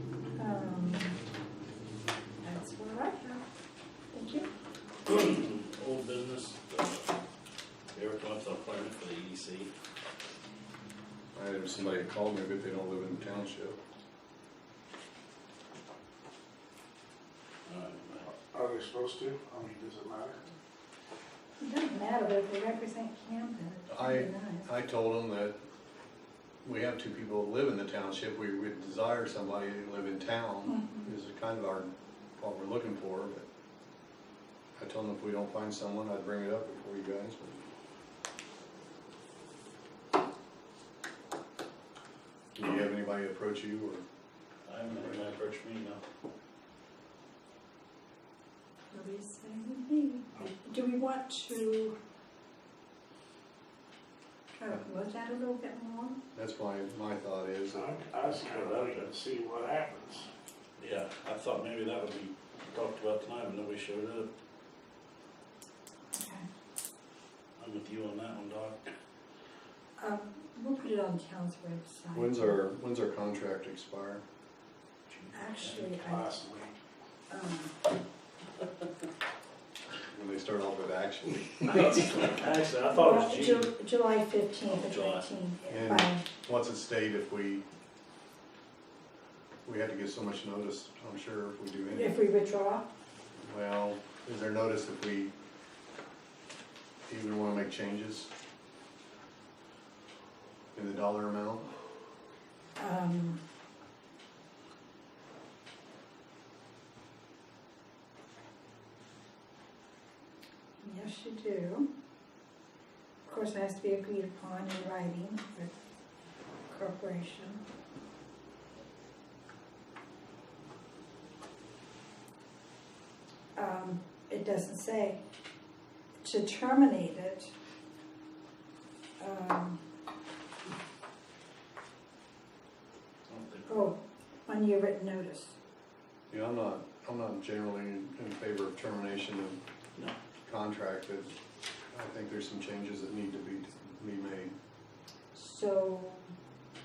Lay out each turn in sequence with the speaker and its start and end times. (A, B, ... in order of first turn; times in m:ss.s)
0:00.4-0:01.2 A
0:02.4-0:03.4 A
0:04.1-0:04.5 A
0:05.0-0:07.1 B
0:07.9-0:09.7 B
0:11.3-0:13.8 C
0:17.7-0:18.3 B
0:18.3-0:20.5 D
0:21.6-0:24.7 A
0:23.9-0:25.5 C
0:26.6-0:33.4 C
0:30.6-0:31.1 A
0:34.8-0:37.6 C
0:42.5-0:44.0 C
0:44.7-0:46.0 B
0:48.9-0:52.0 A
0:54.6-0:56.2 A
0:56.3-0:57.9 C
0:57.7-1:00.3 D
1:00.8-1:04.3 B
1:06.1-1:06.5 A
1:07.6-1:08.9 B
1:10.0-1:12.6 A
1:12.1-1:14.2 C
1:15.1-1:15.9 B
1:15.3-1:16.3 A
1:16.0-1:16.8 D
1:17.3-1:17.7 A
1:20.1-1:21.6 C
1:21.6-1:23.7 B
1:22.9-1:26.2 A
1:24.7-1:25.2 B
1:25.7-1:27.6 C
1:29.6-1:32.2 C
1:31.9-1:32.8 A
1:33.4-1:35.3 C
1:37.1-1:38.3 C
1:40.7-1:41.7 C
1:42.8-1:43.4 A
1:50.8-1:51.9 A
1:53.2-1:55.7 A
1:56.7-1:57.6 A
2:03.6-2:05.2 A
2:06.2-2:07.5 A
2:09.2-2:09.8 A
2:13.3-2:13.9 B
2:13.7-2:15.5 A
2:16.3-2:19.6 C
2:20.4-2:21.3 C
2:21.9-2:24.5 C
2:25.3-2:26.2 A